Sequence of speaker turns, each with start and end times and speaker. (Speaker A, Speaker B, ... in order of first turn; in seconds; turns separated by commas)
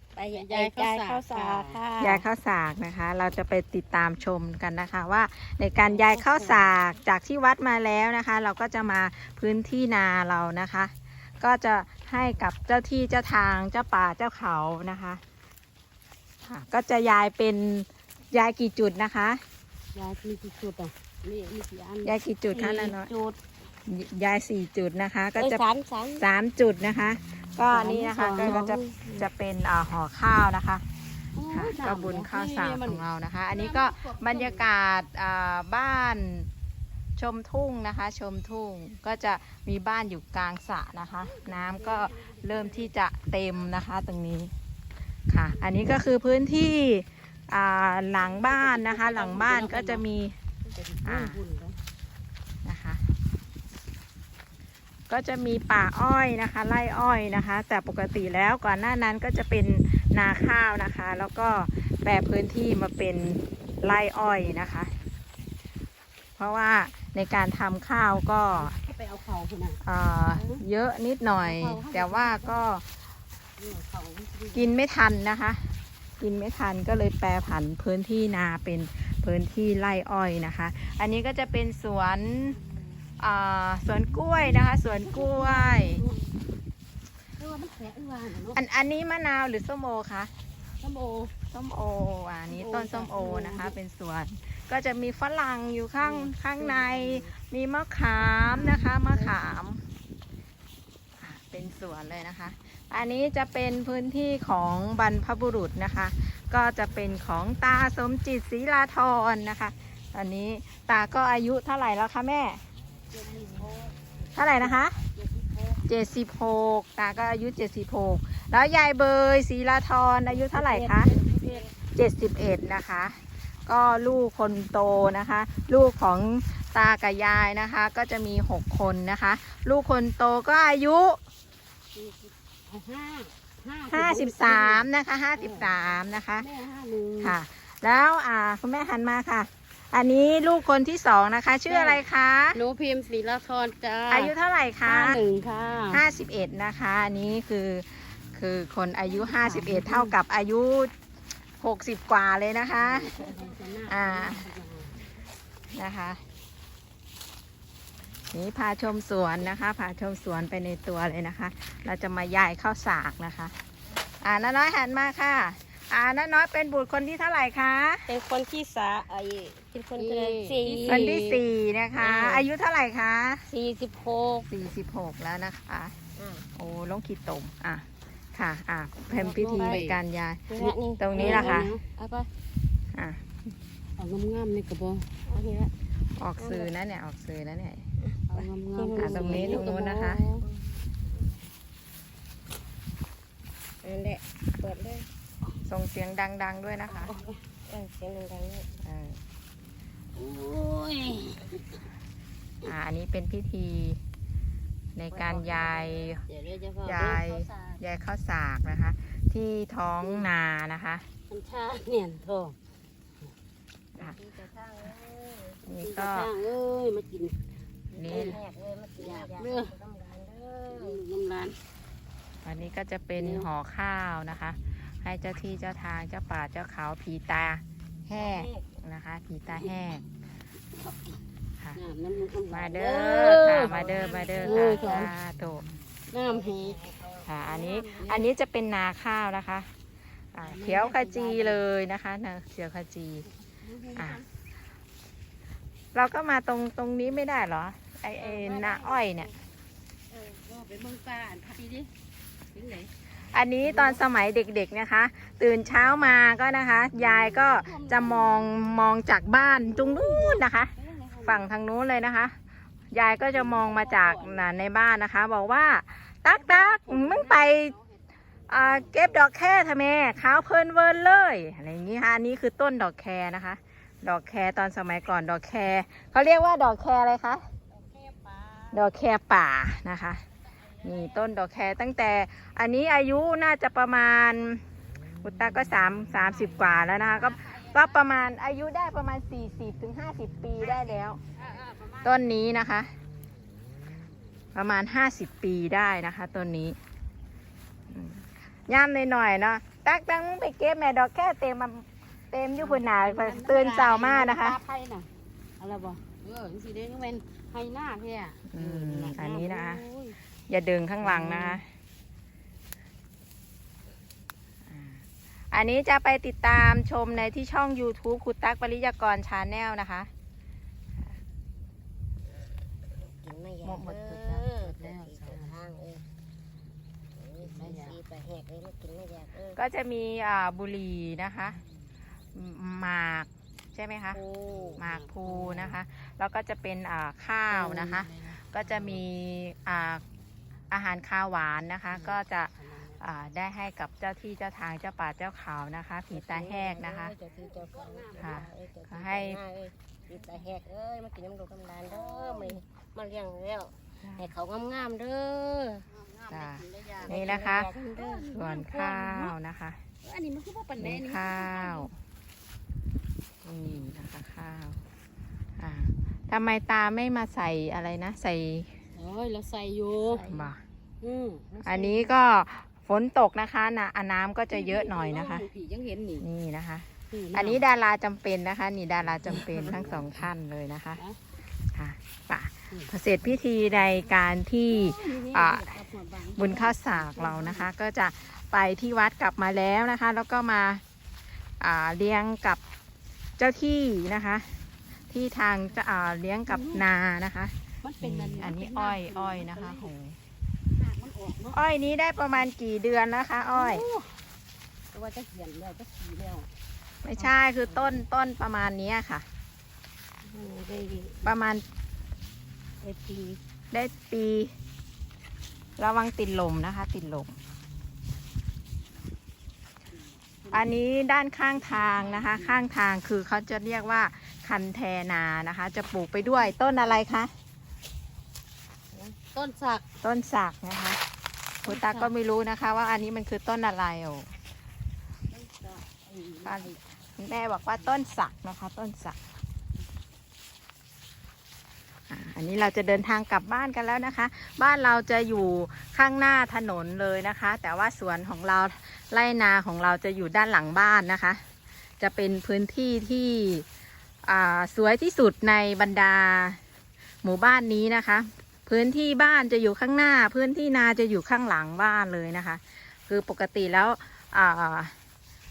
Speaker A: 0.1-2.2, Speaker B: 0.3-1.8, Speaker C: 2.0-15.2, Speaker B: 5.8-6.7, Speaker C: 16.4-19.4, Speaker B: 19.9-23.3, Speaker C: 22.0-23.1, Speaker C: 23.9-25.6, Speaker A: 25.4-26.2, Speaker B: 25.4-26.0, Speaker C: 26.2-30.9, Speaker B: 27.7-28.6, Speaker A: 28.2-29.2, Speaker B: 31.4-34.7, Speaker C: 31.5-36.5, Speaker C: 37.2-44.5, Speaker B: 41.2-42.9, Speaker C: 45.3-50.4, Speaker B: 48.2-50.0, Speaker B: 50.6-51.8, Speaker C: 51.0-51.4, Speaker C: 52.6-53.0, Speaker C: 55.1-64.9, Speaker C: 66.4-68.8, Speaker B: 68.5-69.8, Speaker C: 69.8-72.8, Speaker B: 70.3-70.6, Speaker B: 71.4-72.6, Speaker B: 73.6-74.7, Speaker C: 74.5-82.6, Speaker B: 82.6-82.8, Speaker C: 83.2-86.0, Speaker B: 84.2-86.3, Speaker B: 87.4-88.6, Speaker C: 88.5-90.3, Speaker B: 90.8-91.3, Speaker C: 91.5-99.8, Speaker B: 92.5-93.8, Speaker B: 96.0-97.3, Speaker B: 98.2-99.3, Speaker C: 101.2-112.6, Speaker B: 113.1-115.8, Speaker C: 114.3-115.0, Speaker C: 115.9-121.1, Speaker B: 120.3-121.7, Speaker A: 120.5-121.7, Speaker C: 121.9-131.2, Speaker B: 131.9-135.8, Speaker C: 133.9-136.5, Speaker B: 136.4-137.4, Speaker C: 137.2-142.6, Speaker B: 141.7-146.0, Speaker C: 144.1-145.2, Speaker C: 145.9-150.9, Speaker B: 149.1-150.2, Speaker C: 151.6-153.2, Speaker B: 152.8-155.0, Speaker A: 153.1-154.0, Speaker C: 153.9-154.4, Speaker C: 155.7-156.2, Speaker C: 158.3-163.6, Speaker C: 164.2-168.1, Speaker A: 168.1-171.4, Speaker B: 170.0-171.2, Speaker C: 170.9-173.5, Speaker A: 172.0-172.5, Speaker A: 173.5-174.5, Speaker C: 174.4-175.9, Speaker A: 176.2-176.5, Speaker C: 176.6-181.7, Speaker B: 179.1-180.0, Speaker A: 179.2-179.8, Speaker A: 180.5-182.3, Speaker B: 180.6-181.8, Speaker C: 182.9-183.3, Speaker B: 184.0-185.1, Speaker A: 185.3-185.7, Speaker C: 186.2-187.9, Speaker A: 186.4-186.7, Speaker A: 188.0-189.7, Speaker B: 188.3-190.5, Speaker C: 189.0-190.2, Speaker A: 190.4-190.9, Speaker A: 193.8-195.1, Speaker C: 195.7-197.1, Speaker B: 196.9-197.4, Speaker A: 197.7-198.8, Speaker C: 198.8-199.2, Speaker B: 200.2-201.8, Speaker C: 202.6-204.0, Speaker C: 204.9-206.2, Speaker A: 205.1-206.1, Speaker B: 206.3-207.3, Speaker C: 206.8-211.1, Speaker A: 207.1-207.8, Speaker B: 211.3-212.6, Speaker A: 214.0-215.6, Speaker C: 215.7-216.3, Speaker B: 215.7-217.4, Speaker A: 217.9-221.0, Speaker C: 217.9-218.4, Speaker B: 218.1-218.4, Speaker B: 219.0-219.8, Speaker B: 220.7-221.6, Speaker C: 222.4-230.1, Speaker B: 223.2-223.5, Speaker A: 228.1-228.7, Speaker B: 230.7-231.2, Speaker B: 231.8-235.2, Speaker C: 232.5-235.7, Speaker A: 233.7-235.2, Speaker B: 236.1-236.9, Speaker A: 236.3-238.3, Speaker C: 237.2-239.7, Speaker C: 240.3-243.3, Speaker B: 240.4-241.6, Speaker B: 243.5-244.3, Speaker C: 243.9-244.2, Speaker C: 245.9-249.3, Speaker A: 248.2-249.3, Speaker B: 250.1-251.9, Speaker B: 252.5-252.9, Speaker C: 253.2-260.7, Speaker B: 253.6-254.0, Speaker B: 256.9-258.8, Speaker B: 259.4-261.5, Speaker C: 261.2-262.3, Speaker C: 262.9-267.7, Speaker B: 263.3-264.5, Speaker B: 266.3-269.0, Speaker C: 268.5-277.4, Speaker B: 277.8-278.8, Speaker C: 278.7-280.2, Speaker B: 280.6-281.3, Speaker C: 280.8-284.6, Speaker C: 285.2-291.2, Speaker B: 286.3-288.1, Speaker B: 291.3-292.3, Speaker C: 292.0-292.9, Speaker C: 294.5-296.8, Speaker C: 297.9-304.6, Speaker B: 302.6-310.2, Speaker C: 308.5-309.8, Speaker C: 310.5-311.7, Speaker B: 311.0-311.6, Speaker C: 314.6-320.1, Speaker A: 322.4-326.0, Speaker C: 323.6-324.5, Speaker B: 324.5-325.6, Speaker A: 327.1-329.6, Speaker B: 327.4-328.0, Speaker C: 329.5-331.6, Speaker C: 332.3-334.2, Speaker A: 334.1-334.8, Speaker B: 334.5-335.8, Speaker C: 334.8-340.0, Speaker B: 337.5-339.0, Speaker C: 340.7-347.1, Speaker B: 341.9-343.0, Speaker A: 346.1-355.9, Speaker B: 347.4-348.5, Speaker C: 348.2-349.4, Speaker B: 350.1-350.4, Speaker B: 351.8-352.6, Speaker C: 354.0-354.3, Speaker B: 355.9-359.4, Speaker C: 356.3-357.7, Speaker A: 357.0-358.3, Speaker C: 358.3-359.8, Speaker B: 360.0-361.9, Speaker C: 360.8-361.9, Speaker C: 363.4-364.8, Speaker C: 365.6-368.8, Speaker B: 368.9-370.3, Speaker C: 370.1-370.6, Speaker B: 371.0-372.1, Speaker C: 371.6-375.5, Speaker B: 374.5-376.2, Speaker C: 376.2-381.0, Speaker B: 377.1-377.6, Speaker B: 379.2-380.2, Speaker C: 381.7-385.8, Speaker B: 384.7-387.7, Speaker C: 386.4-390.8, Speaker C: 391.6-392.6, Speaker C: 393.4-394.5, Speaker C: 395.1-400.2, Speaker B: 396.5-396.8, Speaker B: 397.8-399.9, Speaker B: 400.7-401.6, Speaker C: 401.5-403.8, Speaker B: 403.4-404.2, Speaker B: 404.9-406.5, Speaker C: 407.0-409.2, Speaker B: 407.2-408.0, Speaker A: 410.3-411.2, Speaker C: 411.2-411.6, Speaker B: 412.8-413.4, Speaker C: 413.7-414.5, Speaker C: 415.8-417.4, Speaker B: 420.4-420.8, Speaker C: 420.5-427.3, Speaker B: 421.6-422.6, Speaker B: 428.9-429.8, Speaker C: 430.0-431.0, Speaker B: 431.6-432.1, Speaker C: 431.6-434.3, Speaker B: 435.3-436.8, Speaker C: 436.4-439.2, Speaker C: 442.1-451.4, Speaker C: 452.0-453.6, Speaker C: 454.2-456.6, Speaker C: 457.2-464.9